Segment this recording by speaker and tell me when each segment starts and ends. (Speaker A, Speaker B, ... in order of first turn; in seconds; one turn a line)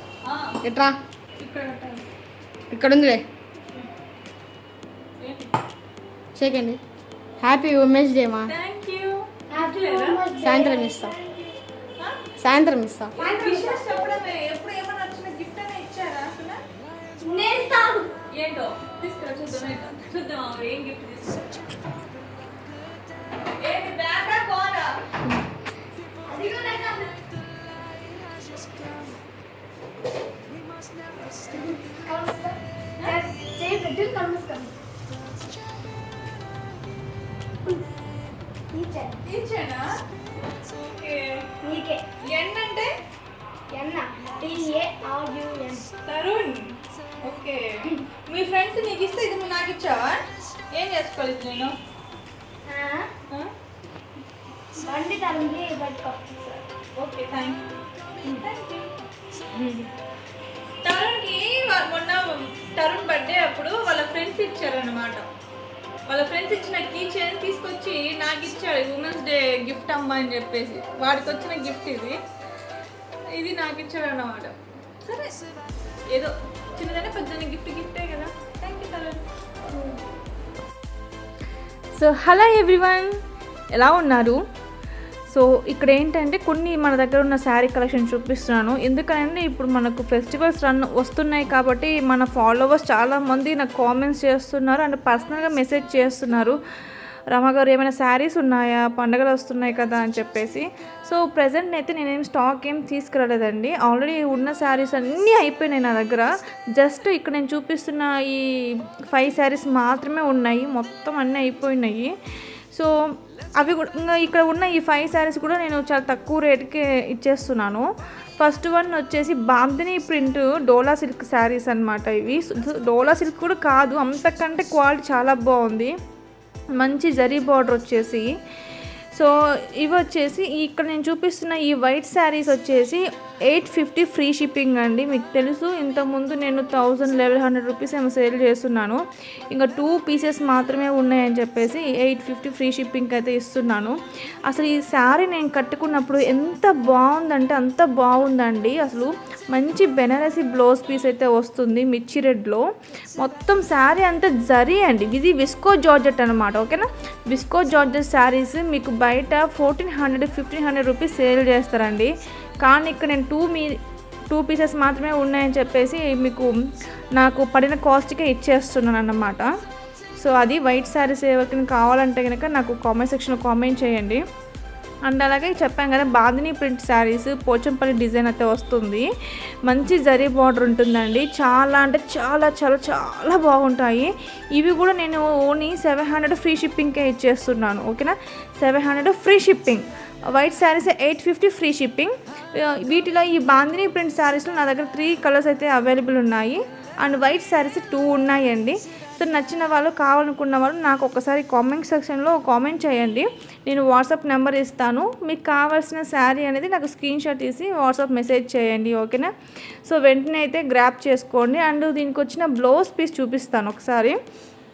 Speaker A: 0.2-0.6
Speaker B: 0.6-1.0
Speaker A: 1.4-2.0
Speaker B: 2.7-3.2
Speaker A: 5.2-5.5
Speaker B: 6.4-6.8
Speaker B: 7.4-8.5
Speaker A: 8.5-10.2
Speaker C: 9.5-11.5
Speaker B: 10.4-11.1
Speaker B: 12.4-13.1
Speaker A: 13.2-16.6
Speaker C: 13.2-13.9
Speaker C: 17.2-18.1
Speaker A: 18.3-21.5
Speaker A: 23.5-24.9
Speaker C: 26.2-27.1
Speaker C: 31.5-34.7
Speaker C: 38.7-39.2
Speaker A: 39.2-39.9
Speaker A: 40.8-41.5
Speaker C: 41.6-42.0
Speaker A: 42.2-42.9
Speaker C: 43.7-45.9
Speaker A: 46.0-46.7
Speaker A: 47.2-50.2
Speaker A: 50.7-51.7
Speaker C: 52.7-53.1
Speaker C: 54.8-56.4
Speaker A: 57.0-57.6
Speaker A: 58.2-58.9
Speaker A: 59.5-59.9
Speaker A: 60.8-65.2
Speaker A: 66.1-72.2
Speaker A: 73.3-75.3
Speaker A: 76.1-79.2
Speaker A: 82.0-83.1
Speaker A: 83.7-84.4
Speaker A: 85.3-96.6
Speaker A: 97.3-108.4
Speaker A: 109.1-112.1
Speaker A: 113.6-117.9
Speaker A: 118.4-125.9
Speaker A: 126.8-128.3
Speaker A: 129.1-139.0
Speaker A: 139.5-143.9
Speaker A: 144.5-152.6
Speaker A: 153.2-163.8
Speaker A: 164.3-166.5
Speaker A: 167.2-169.5
Speaker A: 170.2-174.2
Speaker A: 175.1-179.1
Speaker A: 179.7-209.3
Speaker A: 209.9-214.2